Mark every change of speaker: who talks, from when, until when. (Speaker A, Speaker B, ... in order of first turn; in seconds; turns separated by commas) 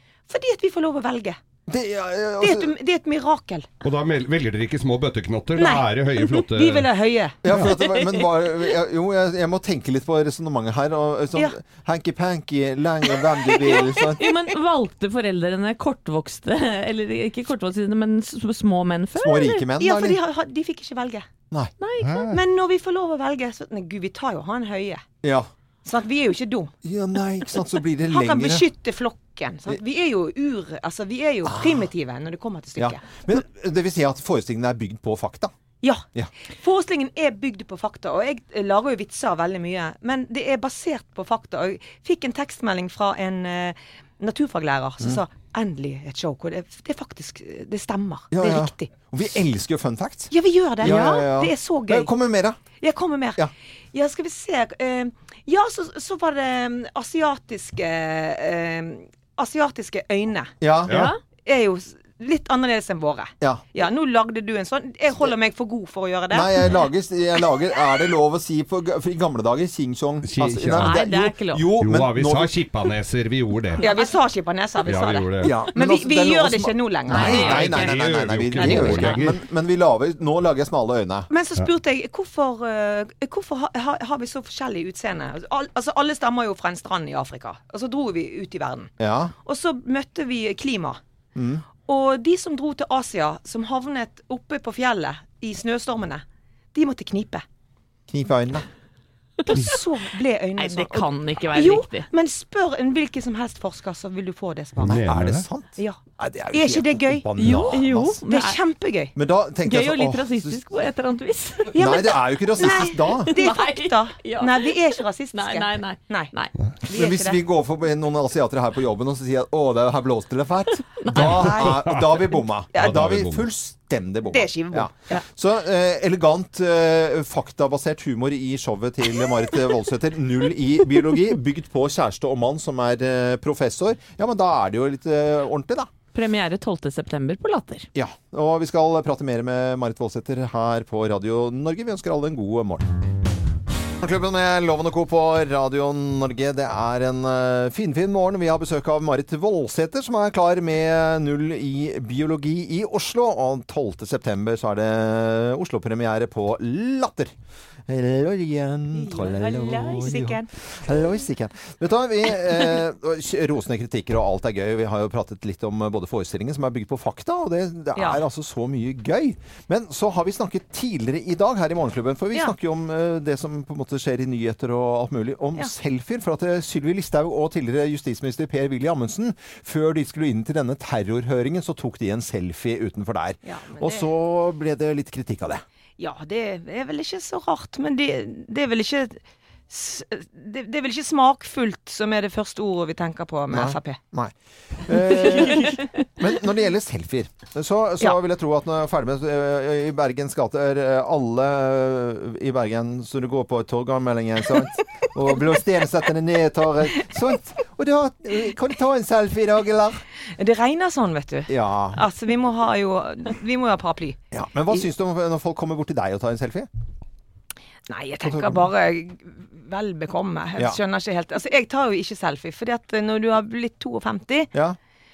Speaker A: 0.3-1.4, Speaker B: 1.7-2.7, Speaker A: 2.4-3.7, Speaker C: 3.8-6.9, Speaker A: 5.5-7.4, Speaker B: 7.4-14.2, Speaker D: 7.9-8.2, Speaker D: 13.7-19.7, Speaker B: 19.2-20.2, Speaker A: 19.8-21.3, Speaker D: 21.8-22.3, Speaker C: 22.0-22.4, Speaker A: 22.3-25.0, Speaker B: 25.2-25.5, Speaker A: 25.9-26.7, Speaker B: 26.8-28.7, Speaker A: 28.1-33.0, Speaker B: 31.5-31.9, Speaker B: 32.8-35.5, Speaker A: 36.6-48.9, Speaker B: 48.3-52.6, Speaker A: 50.3-52.1, Speaker A: 52.8-60.5, Speaker B: 60.6-61.0, Speaker C: 60.9-61.1, Speaker D: 60.9-61.2, Speaker A: 61.5-66.7, Speaker B: 66.3-72.6, Speaker C: 70.2-71.1, Speaker D: 70.8-71.8, Speaker C: 71.8-73.9, Speaker A: 73.8-77.9, Speaker C: 74.8-75.6, Speaker B: 75.4-81.3, Speaker D: 77.1-77.9, Speaker C: 77.1-79.4, Speaker A: 78.6-79.2, Speaker A: 81.3-88.9, Speaker B: 89.0-89.3, Speaker A: 89.4-91.0, Speaker B: 91.4-91.6, Speaker A: 91.8-97.4, Speaker B: 98.1-98.7, Speaker A: 99.5-105.0, Speaker D: 99.5-99.8, Speaker D: 100.6-102.1, Speaker C: 104.8-105.5, Speaker B: 104.8-108.2, Speaker A: 106.5-107.6, Speaker D: 107.4-108.6, Speaker A: 108.3-109.1, Speaker B: 109.2-110.6, Speaker D: 109.6-111.8, Speaker A: 111.7-116.3, Speaker B: 111.8-113.3, Speaker D: 112.6-116.6, Speaker B: 116.8-135.9, Speaker A: 116.9-117.4, Speaker D: 121.0-121.5, Speaker C: 121.1-123.5, Speaker A: 124.3-125.2, Speaker D: 136.1-137.9, Speaker B: 137.9-142.9, Speaker B: 144.0-157.3, Speaker B: 157.9-185.6, Speaker D: 159.2-160.1, Speaker A: 159.4-160.5, Speaker A: 168.0-168.2, Speaker A: 183.4-184.1, Speaker A: 186.0-194.0, Speaker B: 193.5-194.3, Speaker B: 194.9-210.0, Speaker D: 195.3-195.7, Speaker A: 210.4-214.2, Speaker B: 211.5-212.0, Speaker B: 214.3-216.7, Speaker A: 217.9-224.5, Speaker B: 218.2-218.7